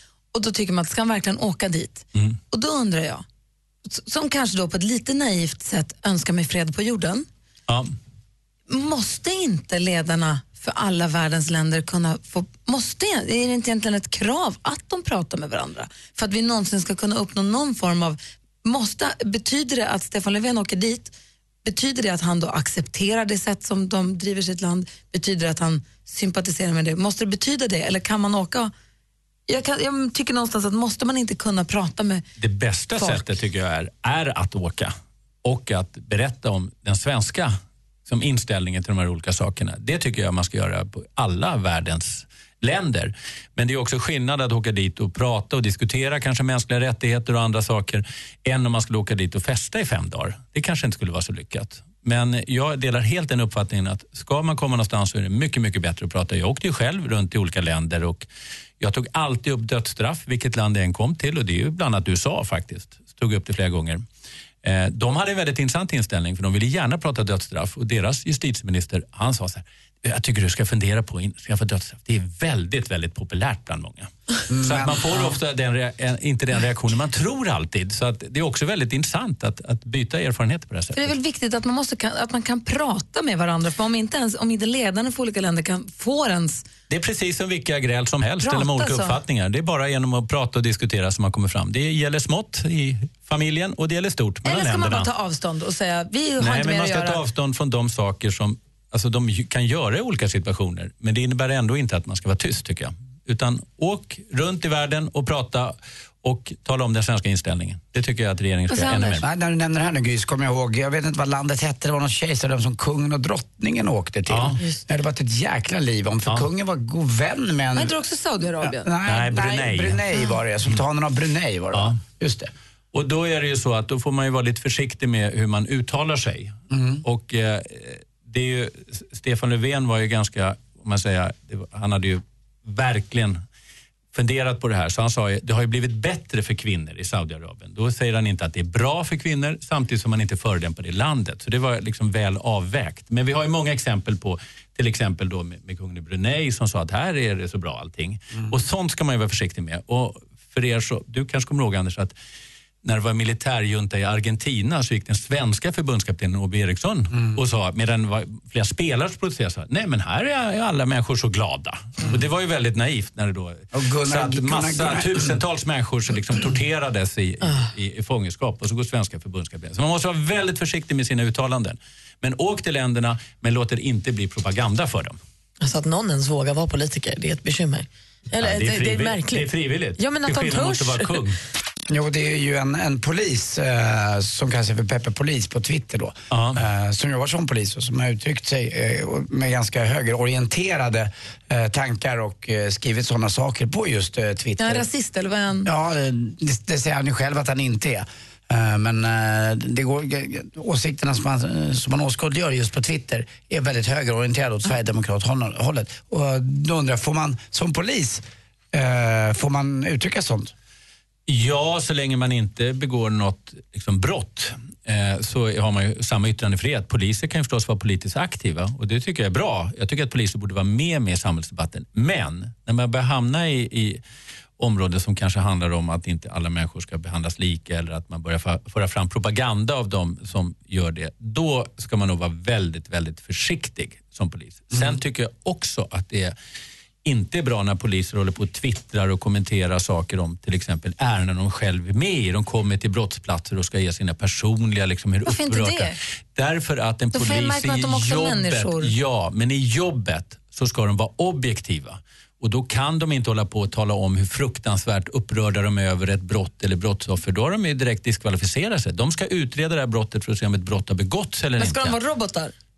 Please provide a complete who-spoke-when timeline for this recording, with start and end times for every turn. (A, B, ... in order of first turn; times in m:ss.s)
0:00.3-0:03.2 A
0:03.9-0:07.3 A
0:07.7-0:07.9 B
0:08.7-0:28.7 A
0:29.5-0:32.2 A
0:32.4-0:34.9 B
0:33.0-0:33.3 A
0:35.4-0:37.5 B
0:38.1-0:58.3 B
0:58.8-1:04.0 B
1:04.6-1:21.1 B
1:14.5-1:15.3 C
1:21.0-1:26.7 A
1:26.9-1:35.1 B
1:28.4-1:29.2 A
1:34.4-1:37.2 A
1:36.4-1:49.3 B
1:48.7-1:49.2 A
1:49.2-1:58.0 C
1:54.3-1:54.6 B
1:57.7-1:58.9 A
1:58.6-2:02.5 C
1:59.1-2:00.0 B
2:02.9-2:13.4 B
2:06.7-2:07.0 C
2:14.1-2:32.1 B
2:32.8-2:55.2 B
2:43.7-2:45.4 C
2:55.6-3:01.2 D
2:58.4-3:01.4 B
3:01.9-3:14.9 C
3:06.3-3:06.6 B
3:14.6-3:15.7 A
3:15.6-3:30.5 C
3:31.3-3:44.0 B
3:44.6-3:56.4 B
3:57.0-4:22.0 B
4:05.3-4:06.0 A
4:07.1-4:08.9 A
4:21.6-4:22.5 A